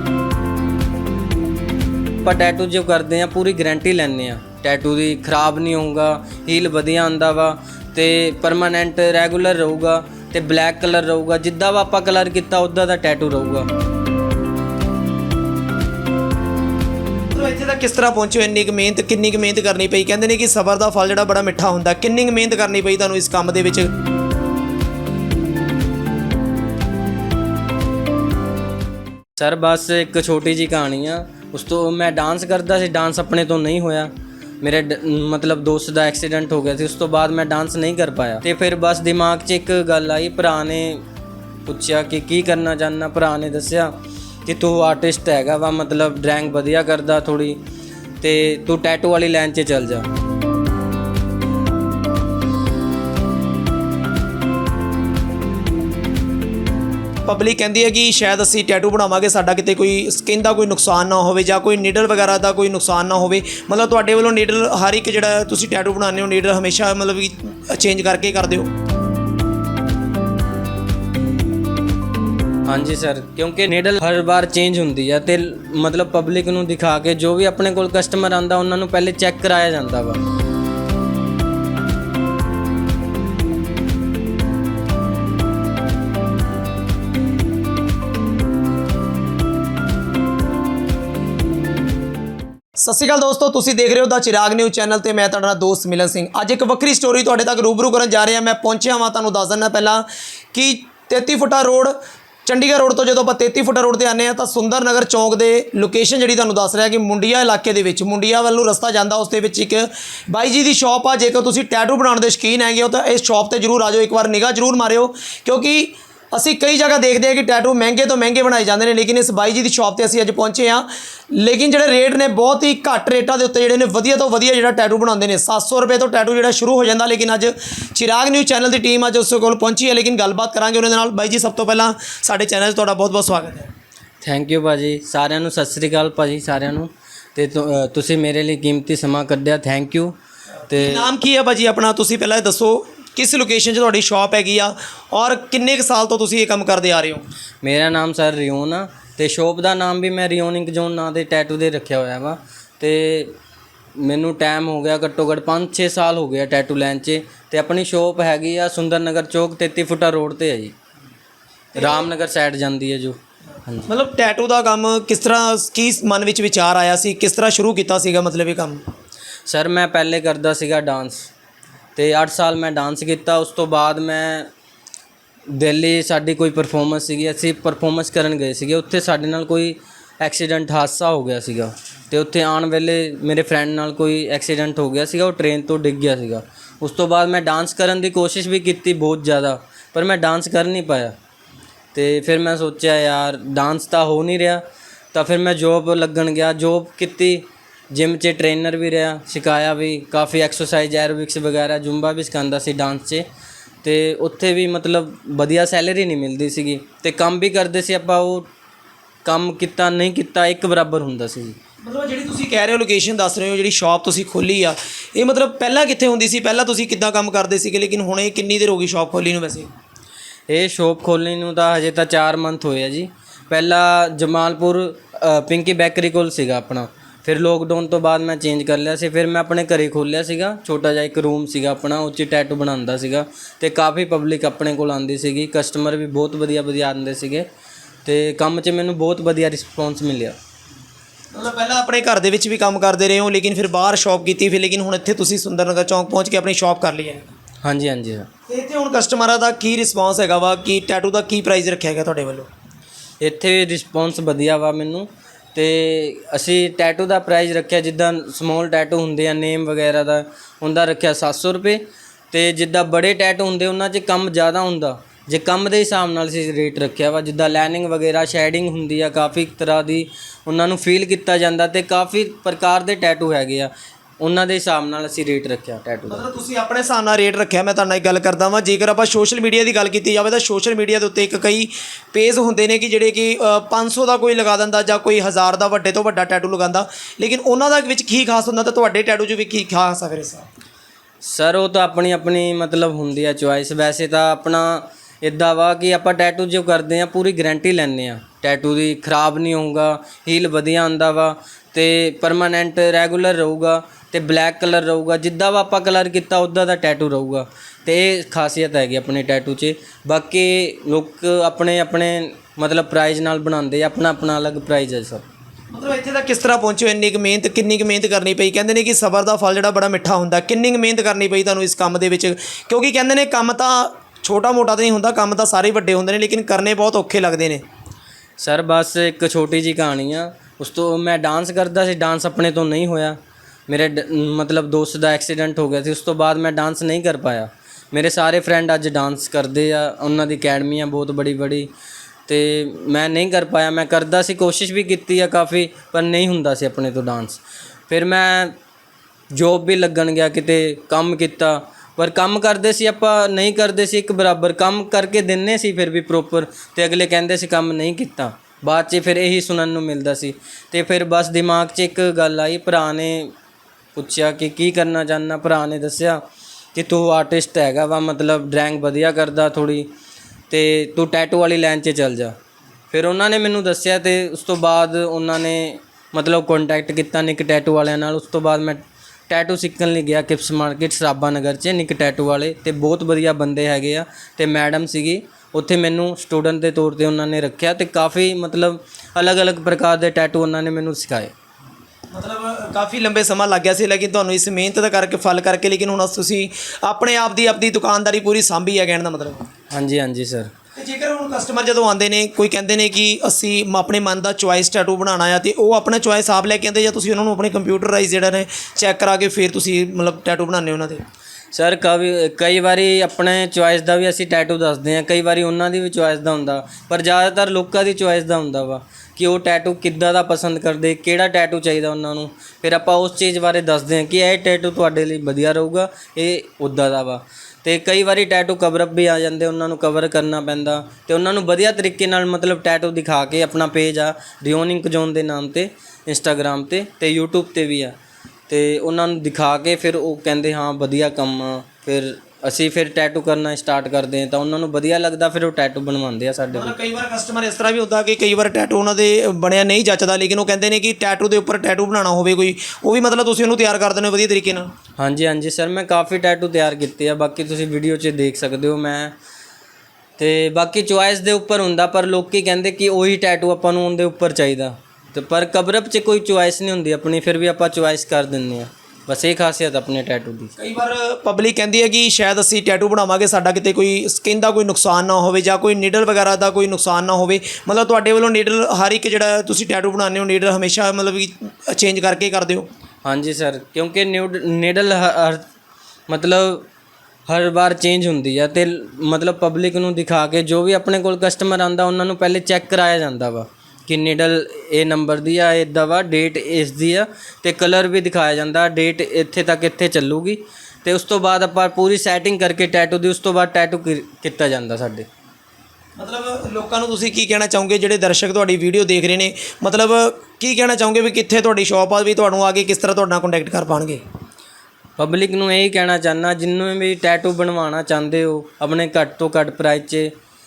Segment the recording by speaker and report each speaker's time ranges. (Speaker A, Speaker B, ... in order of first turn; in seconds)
Speaker A: 2.2-13.7, 29.4-41.0, 41.7-43.9, 44.5-47.6, 48.2-50.1, 72.7-80.2, 134.2-140.2, 140.7-141.1, 147.6-153.3, 153.9-160.7, 161.7-163.9, 169.5-171.3, 171.9-174.5, 175.5-191.1, 191.9-203.3, 203.8-208.5, 209.2-211.6, 220.5-237.5, 238.0-240.4, 247.6-248.3, 253.2-276.2, 291.2-315.3, 328.4-341.7, 342.3-348.6, 349.3-363.3, 363.9-366.2, 366.7-369.9, 370.5-372.4, 372.9-391.3, 399.7-400.5, 411.5-437.9, 438.5-446.7, 455.0-459.1, 460.2-470.5, 483.1-485.4, 486.1-486.7, 487.3-505.1, 515.0-520.1
Speaker B: 17.3-23.9, 57.2-68.7, 92.8-101.9, 102.5-133.7, 140.7-147.2, 161.8-162.1, 163.9-168.8, 211.8-219.7, 241.3-247.3, 248.5-252.5, 276.1-290.5, 315.7-327.6, 392.1-399.5, 400.8-411.0, 446.5-454.7, 470.6-482.7, 506.0-514.0